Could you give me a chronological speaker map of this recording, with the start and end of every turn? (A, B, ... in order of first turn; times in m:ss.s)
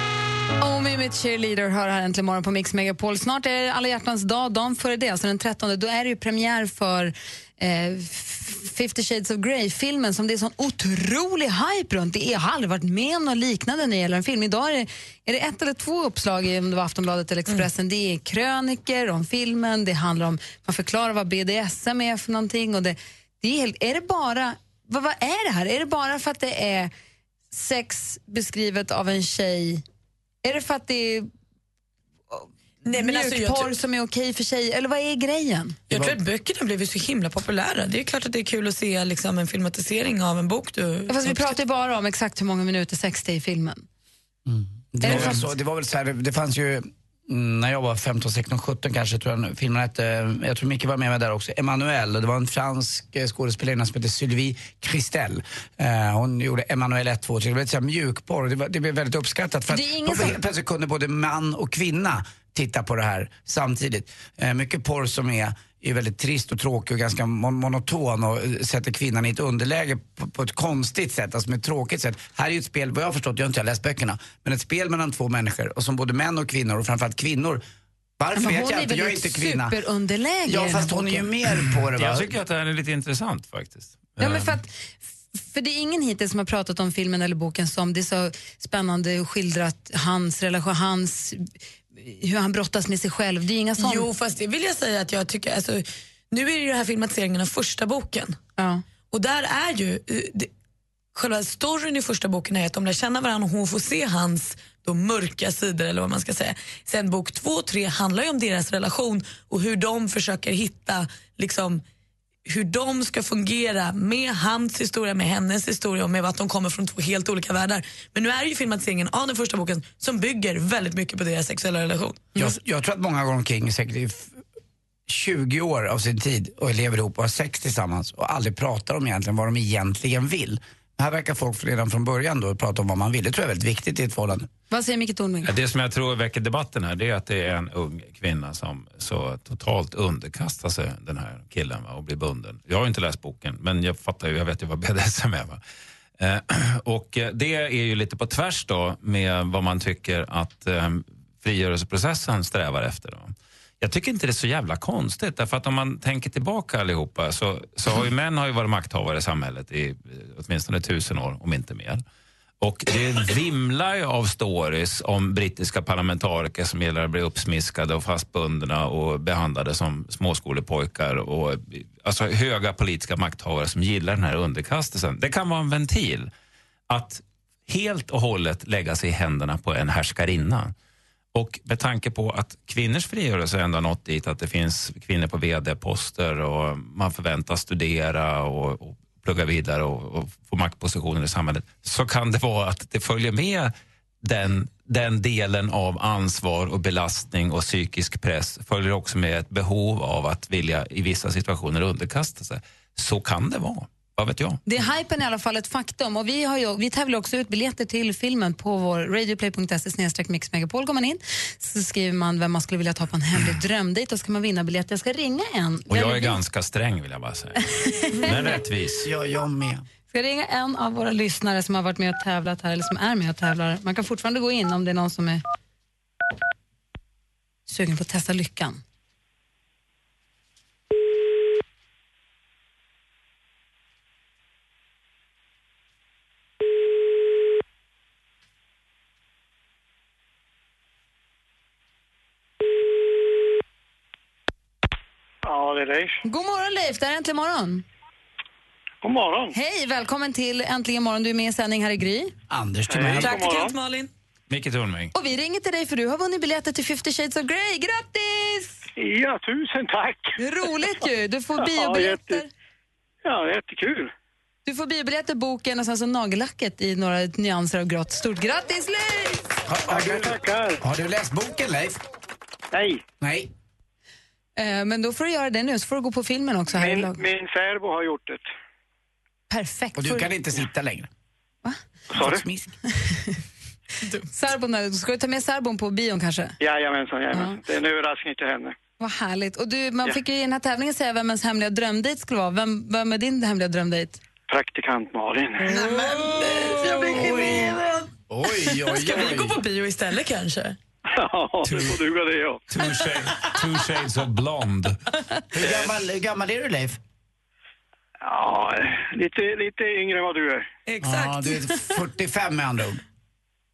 0:00.6-0:26.9 A
0:27.5-0:29.8 A
0:30.4-0:31.3 A
0:32.3-0:35.8 A
0:32.8-0:33.8 B
0:35.9-0:41.6 B
0:35.9-0:36.2 C
0:41.1-0:43.8 A
0:44.4-1:17.6 C
0:45.0-0:45.4 A
0:45.1-0:45.4 D
0:59.7-1:00.4 A
1:18.2-1:19.8 C
1:18.3-1:21.3 A
1:20.4-1:22.3 C
1:21.9-1:24.6 D
1:24.2-1:34.1 A
1:33.8-1:38.4 B
1:38.6-1:38.8 A
1:39.1-1:40.5 B
1:41.1-1:51.8 B
1:52.4-2:02.6 B
2:02.4-2:04.4 C
2:05.1-2:14.5 C
2:14.7-2:15.5 A
2:15.4-2:25.6 D
2:26.2-2:42.0 D
2:42.6-2:56.3 D
2:56.9-3:00.7 D
3:01.3-3:24.6 D
3:24.6-3:36.4 A
3:35.9-3:37.6 D
3:37.8-3:38.3 A
3:38.2-3:39.1 D
3:39.0-3:39.8 C
3:40.1-3:45.4 A
3:47.7-3:48.8 A
4:05.4-4:06.2 E
4:06.2-4:07.8 A
4:09.0-4:09.5 E
4:09.5-4:12.3 A
4:12.5-4:13.4 C
4:12.9-4:13.8 E
4:13.2-4:14.1 B
4:14.5-4:15.1 D
4:15.1-4:18.9 A
4:19.0-4:20.4 E
4:20.4-4:22.5 A
4:21.6-4:22.4 E
4:23.2-4:24.1 E
4:24.6-4:29.4 A
4:29.6-4:32.0 C
4:29.9-4:30.8 E
4:32.7-4:33.0 E
4:33.2-4:33.5 C
4:34.6-4:37.2 A
4:36.7-4:38.5 E
4:39.5-4:40.3 A
4:40.0-4:41.1 C
4:42.1-4:42.4 E
4:42.1-4:42.7 C
4:43.0-4:43.4 A
4:44.3-4:46.6 A
4:46.6-4:48.7 E
4:47.3-4:47.6 A
4:49.0-4:54.2 A
4:54.5-4:55.8 E
4:55.7-4:57.8 B
4:56.6-4:59.6 C
4:58.7-5:00.8 B
5:01.1-5:02.6 E
5:01.6-5:02.0 D
5:02.7-5:05.0 D
5:05.5-5:07.0 C
5:08.2-5:10.6 E
5:10.9-5:11.6 B
5:11.0-5:13.0 C